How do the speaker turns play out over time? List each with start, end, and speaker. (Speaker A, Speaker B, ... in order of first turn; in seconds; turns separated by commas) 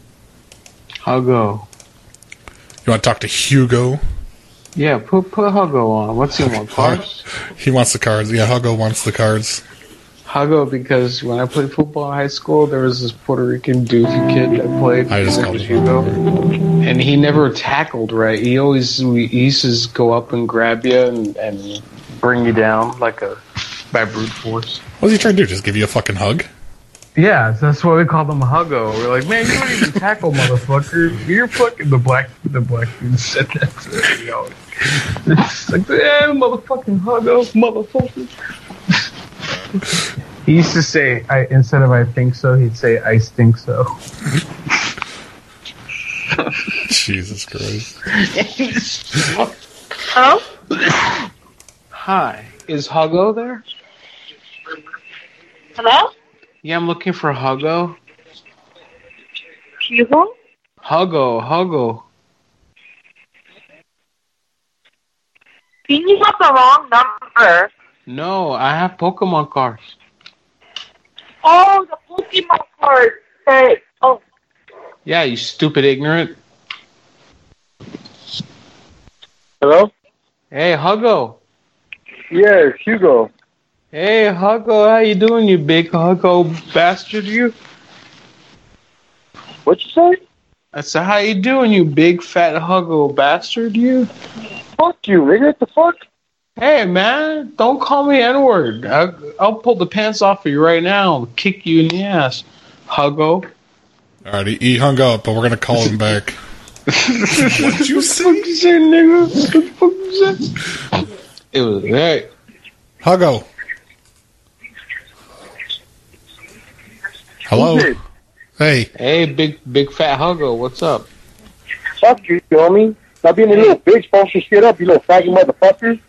Speaker A: 1.0-1.7, Speaker B: 2.9-4.0, Speaker A: 4.8-7.2, Speaker B: 6.3-9.6, Speaker A: 10.3-16.1, Speaker B: 15.1-16.3, Speaker A: 16.8-24.8, Speaker B: 25.0-26.5, Speaker A: 27.2-38.3, Speaker A: 40.4-44.0, Speaker B: 46.9-48.0, Speaker A: 48.2-49.5, Speaker C: 50.1-50.4, Speaker A: 51.9-53.6, Speaker C: 55.8-56.1, Speaker A: 56.6-58.0, Speaker C: 59.9-60.3, Speaker A: 60.8-62.0, Speaker C: 65.9-67.7, Speaker A: 68.1-70.0, Speaker C: 71.4-74.2, Speaker A: 75.0-76.4, Speaker D: 79.6-79.9, Speaker A: 80.5-81.4, Speaker D: 82.3-83.3, Speaker A: 83.9-87.6, Speaker D: 89.7-90.2, Speaker A: 90.7-94.1, Speaker D: 94.8-96.0, Speaker A: 96.6-103.5, Speaker B: 104.2-106.4, Speaker A: 106.9-110.5, Speaker B: 107.4-108.5, Speaker A: 111.5-112.3, Speaker B: 113.0-113.5, Speaker B: 117.5-118.0, Speaker D: 117.5-118.0, Speaker B: 118.6-118.9, Speaker A: 119.0-121.1, Speaker D: 122.0-126.0, Speaker A: 123.5-123.8